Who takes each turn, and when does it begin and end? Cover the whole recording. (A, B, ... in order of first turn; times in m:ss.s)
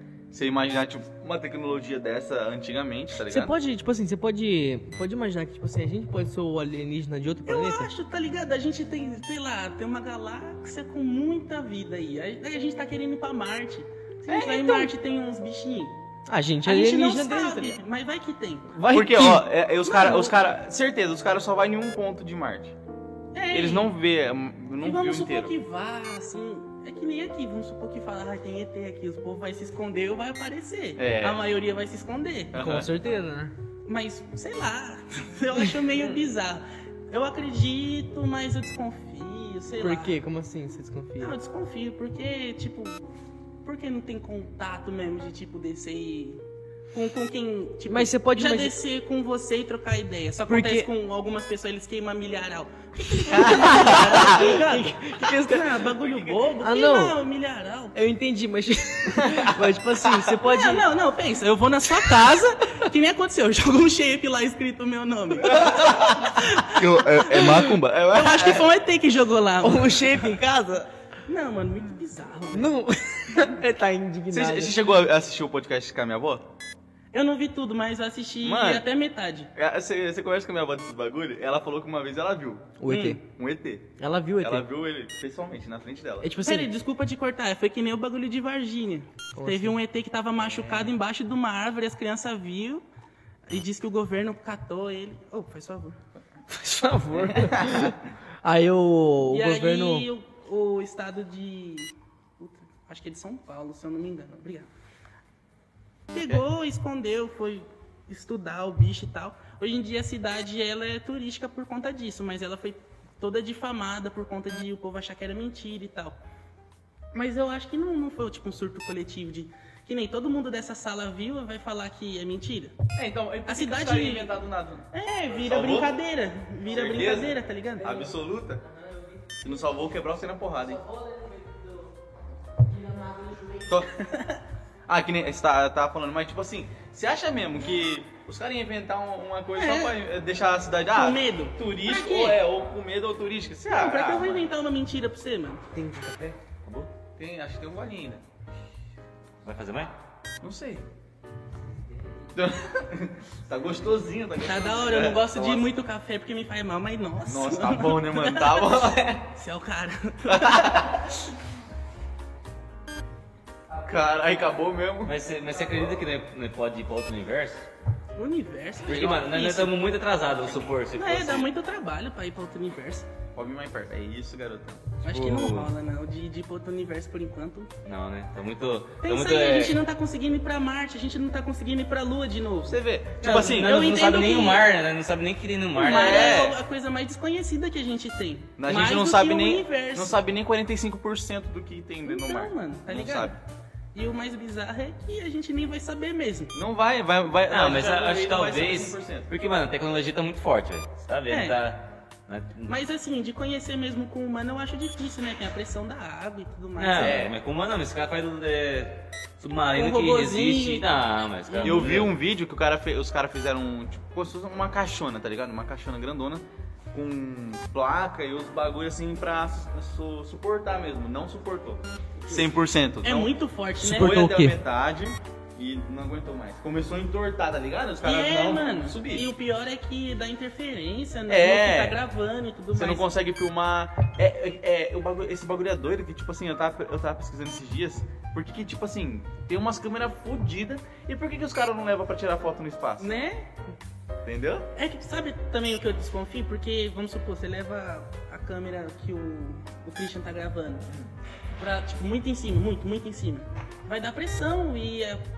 0:00.3-0:03.5 A
0:03.3-0:07.9 B
0:07.5-0:16.0 C
0:14.5-0:14.8 A
0:16.3-0:17.8 B
0:16.6-0:18.7 C
0:18.7-0:19.4 B
0:18.9-0:22.7 A
0:19.8-0:20.4 C
0:23.3-0:23.9 C
0:23.5-0:25.5 A
0:24.8-0:32.6 C
0:31.0-0:31.4 A
0:32.5-0:32.9 A
0:32.5-0:33.5 B
0:33.8-0:40.2 C
0:39.8-0:41.4 B
0:41.2-0:43.0 C
0:43.6-0:58.0 C
0:47.9-0:48.8 B
0:50.5-0:50.9 B
0:53.3-0:55.7 B
0:53.6-0:54.2 A
0:56.0-0:56.5 A
0:56.6-0:57.2 B
0:57.9-1:00.9 B
0:59.2-0:59.5 A
1:00.5-1:10.3 C
1:05.5-1:05.8 B
1:05.5-1:08.7 A
1:09.6-1:10.9 B
1:11.3-1:12.7 C
1:12.5-1:14.9 B
1:14.3-1:16.4 A
1:17.1-1:19.5 C
1:18.4-1:18.8 A
1:19.5-1:26.3 A
1:22.8-1:23.2 B
1:22.9-1:23.2 C
1:24.0-1:24.6 B
1:26.2-1:26.7 B
1:26.4-1:32.8 C
1:29.3-1:29.8 B
1:33.5-1:36.0 C
1:36.5-1:40.1 B
1:37.3-1:37.9 A
1:39.3-1:44.7 C
1:46.1-1:56.2 C
1:57.1-2:02.8 C
2:02.9-2:06.0 A
2:03.4-2:04.3 C
2:04.9-2:07.9 C
2:06.7-2:08.6 A
2:09.4-2:10.8 A
2:10.8-2:11.9 B
2:12.6-2:13.7 B
2:14.0-2:14.4 C
2:14.9-2:24.5 A
2:19.6-2:19.9 C
2:20.9-2:22.4 C
2:23.7-2:25.6 C
2:25.7-2:26.9 D
2:27.2-2:28.2 A
2:29.4-2:29.9 D
2:30.4-2:30.8 A
2:32.3-2:35.7 A
2:34.4-2:40.9 C
2:37.2-2:39.2 A
2:40.3-2:41.1 A
2:43.8-2:45.2 A
2:45.0-2:47.6 D
2:48.2-2:49.7 C
2:48.8-2:51.5 D
2:50.9-2:53.0 C
2:53.4-2:55.7 A
2:55.0-2:57.7 C
2:57.8-2:59.8 D
2:59.0-3:04.7 C
3:02.7-3:03.8 A
3:03.3-3:06.5 D
3:05.7-3:10.1 C
3:05.8-3:06.6 A
3:08.6-3:13.4 A
3:12.0-3:13.4 C
3:13.9-3:16.5 C
3:16.5-3:19.3 A
3:17.5-3:22.8 D
3:21.3-3:21.6 C
3:22.7-3:27.3 C
3:26.8-3:32.1 D
3:27.0-3:27.3 A
3:29.7-3:30.9 C
3:31.4-3:31.9 C
3:31.6-3:43.3 A
3:43.0-3:44.2 C
3:43.8-3:44.6 B
3:43.9-3:49.2 A
3:48.0-3:53.1 C
3:51.3-3:52.0 A
3:52.7-4:03.1 A
4:03.0-4:03.5 C
4:04.2-4:04.7 A
4:04.7-4:10.8 C
4:11.6-4:15.2 C